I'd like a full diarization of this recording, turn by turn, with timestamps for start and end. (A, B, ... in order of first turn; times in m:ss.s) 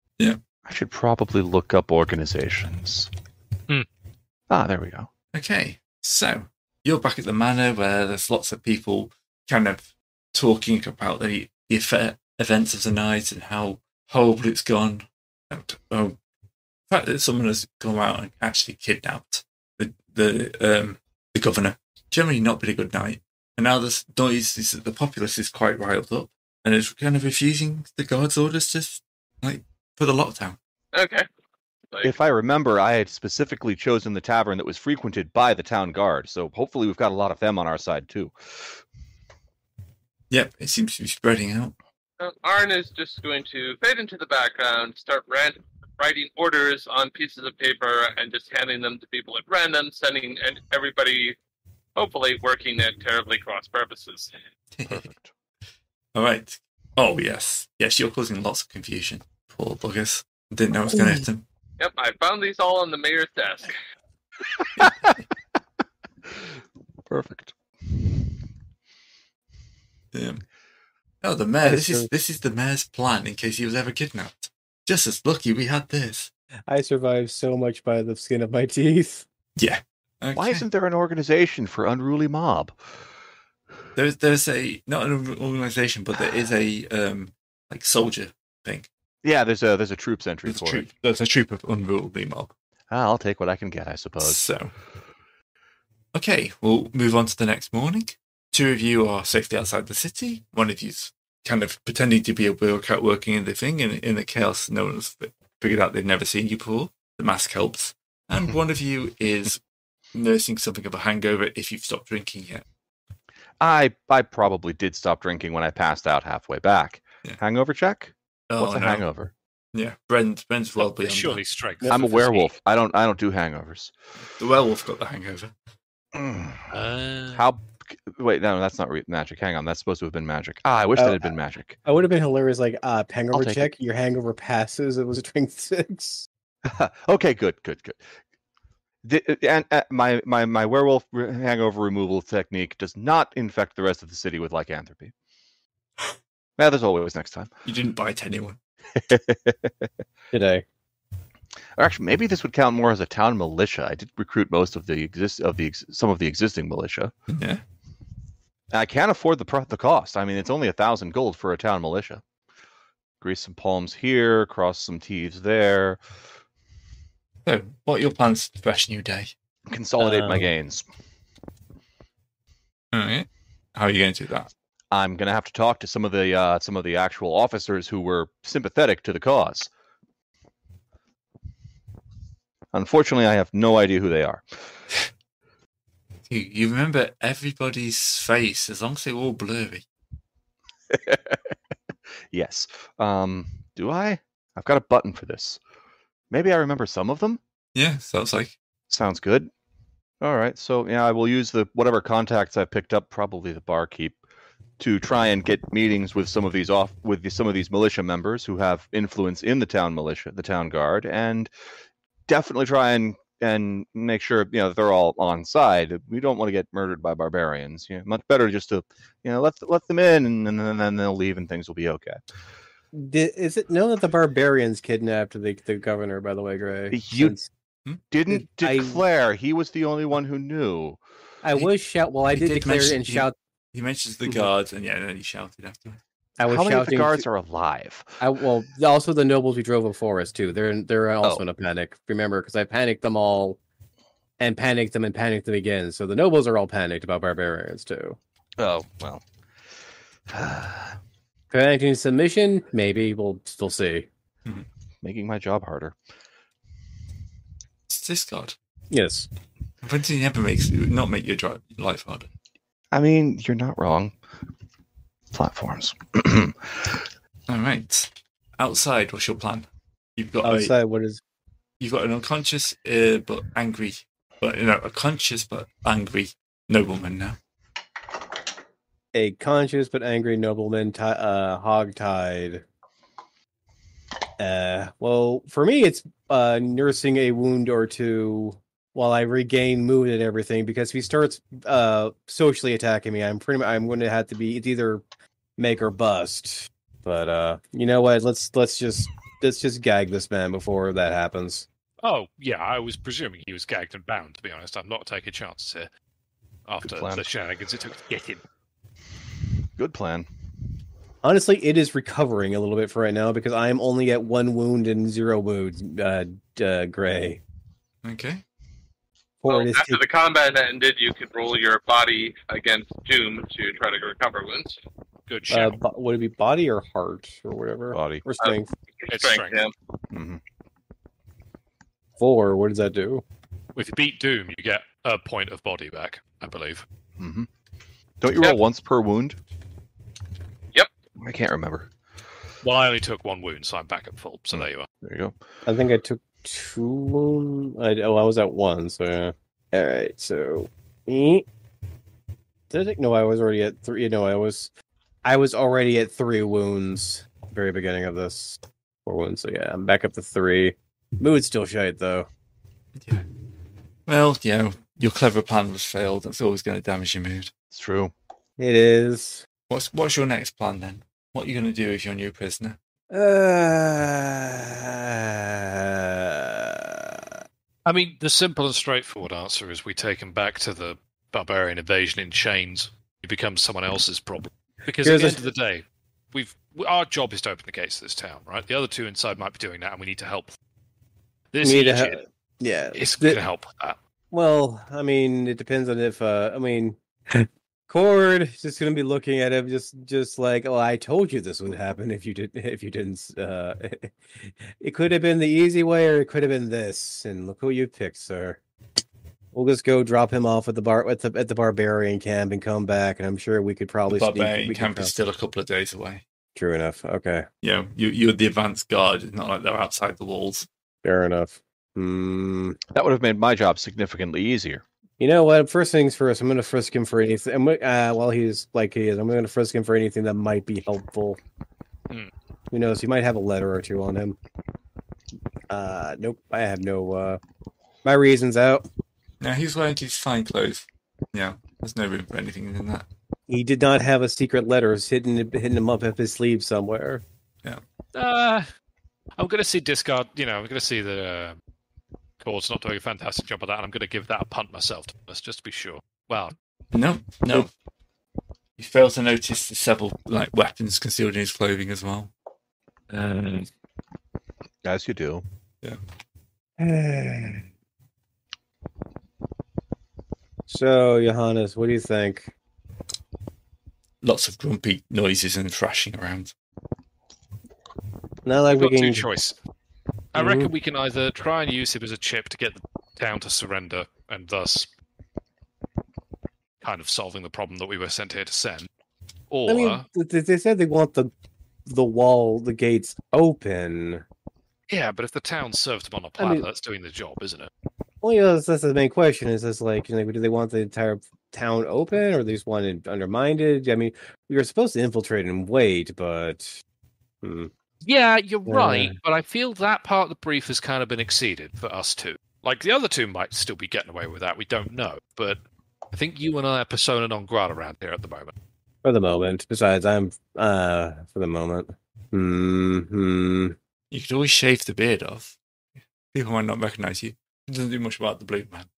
0:00.6-0:03.1 A
0:04.5-0:05.1 A
0:05.3-0:09.8 B
0:10.3-0:16.2 B
0:16.9-0:30.6 B
0:30.9-0:31.2 C
0:31.9-0:32.1 C
0:32.0-0:38.6 A
0:40.3-0:41.7 B
0:42.2-0:51.4 C
0:52.0-0:54.3 C
0:54.7-0:55.1 B
0:54.9-0:55.3 A
0:56.1-1:01.4 B
1:01.8-1:03.7 C
1:04.8-1:05.0 B
1:07.1-1:07.5 A
1:10.1-1:10.4 B
1:11.2-1:16.3 B
1:11.6-1:12.1 D
1:16.7-1:19.2 D
1:19.6-1:20.6 B
1:20.3-1:22.8 A
1:23.9-1:28.9 B
1:29.2-1:30.8 A
1:30.4-1:32.5 B
1:32.9-1:34.4 A
1:34.2-1:34.7 B
1:36.1-1:49.6 B
1:50.1-1:52.6 B
1:53.6-1:59.3 A
1:58.5-1:59.0 B
1:59.7-2:01.4 B
2:00.8-2:02.5 E
2:01.9-2:03.9 A
2:04.4-2:05.5 B
2:06.1-2:06.7 A
2:06.7-2:07.4 E
2:07.3-2:11.8 A
2:11.0-2:11.2 D
2:11.8-2:16.2 D
2:13.3-2:13.7 A
2:16.6-2:18.0 A
2:19.0-2:25.1 A
2:26.6-2:27.5 A
2:27.6-2:28.6 B
2:29.1-2:29.6 A
2:30.3-2:30.6 D
2:31.8-2:37.1 A
2:37.3-2:37.6 B
2:38.7-2:42.2 A
2:43.2-2:46.0 A
2:47.4-2:49.3 B
2:49.7-2:50.9 A
2:50.0-2:50.5 D
2:52.9-2:54.5 B
2:54.9-2:59.7 A
3:02.7-3:04.4 A
3:06.3-3:09.8 B
3:10.9-3:11.5 A
3:12.3-3:15.6 A
3:16.3-3:17.4 A
3:17.7-3:18.6 B
3:18.9-3:19.5 A
3:20.2-3:24.2 A
3:24.8-3:31.5 A
3:32.3-3:42.2 A
3:42.9-3:47.5 D
3:46.9-3:47.4 A
3:48.1-3:51.0 A
3:48.3-3:49.0 D
3:51.4-3:53.3 D
3:52.3-3:56.0 B
3:56.4-3:57.2 D
3:56.4-3:58.2 A
3:58.2-4:03.6 D
4:04.4-4:08.2 D
4:08.6-4:09.2 A
4:10.3-4:11.0 A
4:11.5-4:14.1 D
4:15.0-4:16.0 A
4:17.9-4:18.6 B
4:18.9-4:19.3 D
4:19.8-4:22.3 B
4:22.9-4:24.2 A
4:25.3-4:27.0 A
4:27.5-4:30.7 B
4:30.4-4:31.2 D
4:31.8-4:37.4 B
4:39.1-4:42.6 D
4:44.4-4:55.0 D
4:55.6-5:01.6 D
5:02.0-5:05.9 E
5:06.7-5:08.4 E
5:06.8-5:07.2 A
5:09.8-5:10.3 A
5:11.2-5:17.4 D
5:18.0-5:18.4 B
5:19.4-5:20.0 D
5:19.5-5:24.8 C
5:25.3-5:25.8 E
5:25.5-5:28.7 D
5:27.9-5:28.2 A
5:28.4-5:29.7 C
5:29.1-5:29.6 E
5:30.1-5:30.4 A
5:32.2-5:33.2 D
5:33.8-5:36.8 E
5:37.2-5:37.5 A
5:38.2-5:39.4 A
5:41.2-5:41.9 A
5:42.6-5:44.9 E
5:44.5-5:45.4 A
5:45.6-5:51.4 D
5:52.7-5:54.7 D
5:55.2-6:02.3 D
6:03.0-6:03.2 B
6:04.1-6:07.5 B
6:07.7-6:08.1 A
6:08.6-6:09.4 D
6:09.7-6:12.8 B
6:13.1-6:17.3 D
6:17.8-6:30.5 E
6:25.0-6:25.4 D
6:31.5-6:32.2 E
6:31.6-6:33.4 D
6:32.9-6:34.0 E
6:34.3-6:48.6 D
6:49.5-6:55.1 D
6:54.1-6:56.2 B
6:56.5-6:57.5 D
6:57.6-7:00.7 B
7:01.0-7:02.8 D
7:02.9-7:04.8 A
7:05.2-7:11.4 D
7:12.7-7:14.4 D
7:15.7-7:17.4 D
7:18.0-7:18.8 D
7:19.4-7:23.1 B
7:23.5-7:27.2 D
7:28.1-7:28.6 E
7:29.4-7:31.6 E
7:32.4-7:36.5 E
7:36.9-7:37.7 B
7:38.8-7:42.3 B
7:43.1-7:43.7 B
7:44.8-7:45.4 A
7:46.8-7:47.6 D
7:50.7-7:52.5 D
7:54.2-7:56.5 B
7:58.4-7:59.3 D
7:58.8-7:59.6 E
8:00.3-8:04.9 E
8:00.3-8:00.7 D
8:06.8-8:08.9 E
8:09.5-8:10.0 E
8:09.7-8:11.3 D
8:11.9-8:14.2 D
8:14.9-8:17.7 E
8:16.4-8:16.6 D
8:18.2-8:26.8 D
8:27.4-8:27.7 D
8:28.0-8:35.6 E
8:28.7-8:29.2 D
8:36.1-8:38.5 E
8:39.0-8:43.8 D
8:44.1-8:45.6 B
8:46.3-8:48.9 B